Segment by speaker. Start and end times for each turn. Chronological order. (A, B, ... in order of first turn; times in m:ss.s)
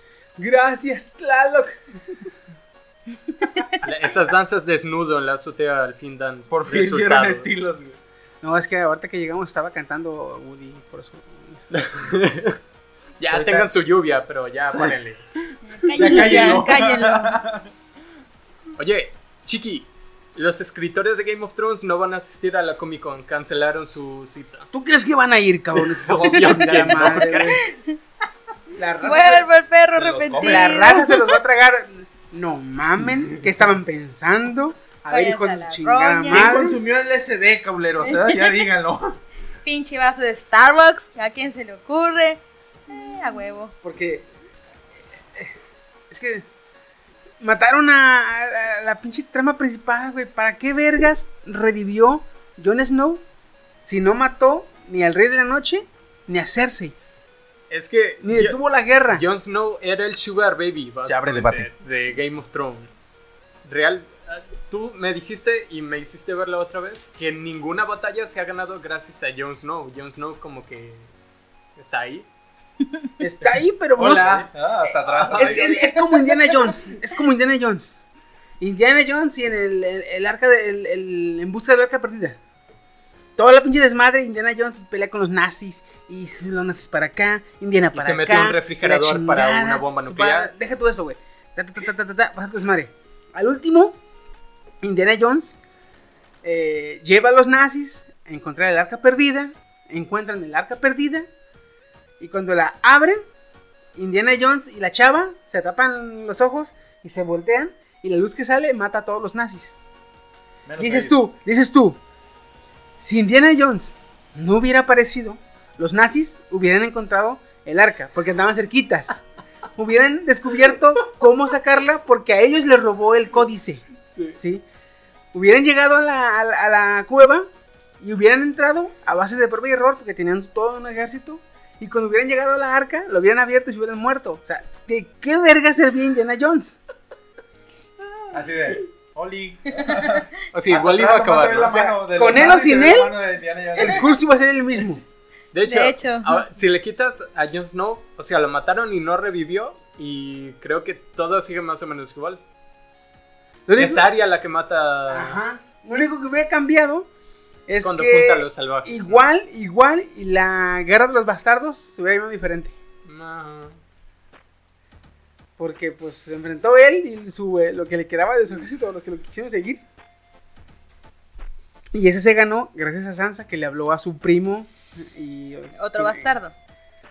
0:00.4-0:01.8 A
0:03.8-0:07.7 B
0:06.5-0:08.0 C
0:08.4-0:11.6 A
0:11.7-0:12.6 B
0:13.2-0:15.3 B
0:13.2-0:13.7 C
0:14.6-0:17.7 C
0:15.6-0:17.4 D
0:16.1-0:16.5 B
0:18.8-0:24.7 B
0:24.7-0:27.6 A
0:25.8-0:27.6 B
0:27.6-0:28.0 D
0:28.7-0:29.5 A
0:29.0-0:31.4 D
0:30.0-0:30.9 C
0:30.3-0:36.8 A
0:35.1-0:36.5 D
0:36.3-0:39.2 C
0:38.0-0:38.6 D
0:39.6-0:43.7 D
0:43.8-0:44.3 A
0:46.1-0:46.5 A
0:47.4-0:53.2 A
0:53.8-0:57.0 A
0:57.7-1:11.1 B
0:58.2-0:59.2 A
1:01.0-1:01.7 C
1:11.8-1:12.3 B
1:13.2-1:18.0 A
1:13.5-1:15.8 C
1:18.6-1:22.4 A
1:23.4-1:34.0 A
1:27.9-1:30.5 B
1:34.8-1:35.6 A
1:36.4-1:41.3 A
1:42.2-1:43.2 A
1:44.0-1:49.8 A
1:50.7-1:51.2 C
1:50.8-1:52.0 A
1:53.0-1:59.2 A
1:59.8-2:03.8 A
2:04.1-2:04.4 B
2:04.4-2:04.6 A
2:05.3-2:07.5 A
2:08.0-2:16.8 A
2:18.3-2:24.2 C
2:20.5-2:21.7 B
2:21.6-2:23.1 A
2:23.8-2:25.0 A
2:25.5-2:32.4 B
2:25.7-2:26.4 D
2:33.7-2:34.0 A
2:33.8-2:35.4 B
2:35.1-2:37.1 A
2:37.7-2:42.8 A
2:37.8-2:39.3 B
2:43.0-2:43.8 B
2:45.6-2:49.8 A
2:51.9-2:56.4 A
2:55.8-2:56.5 D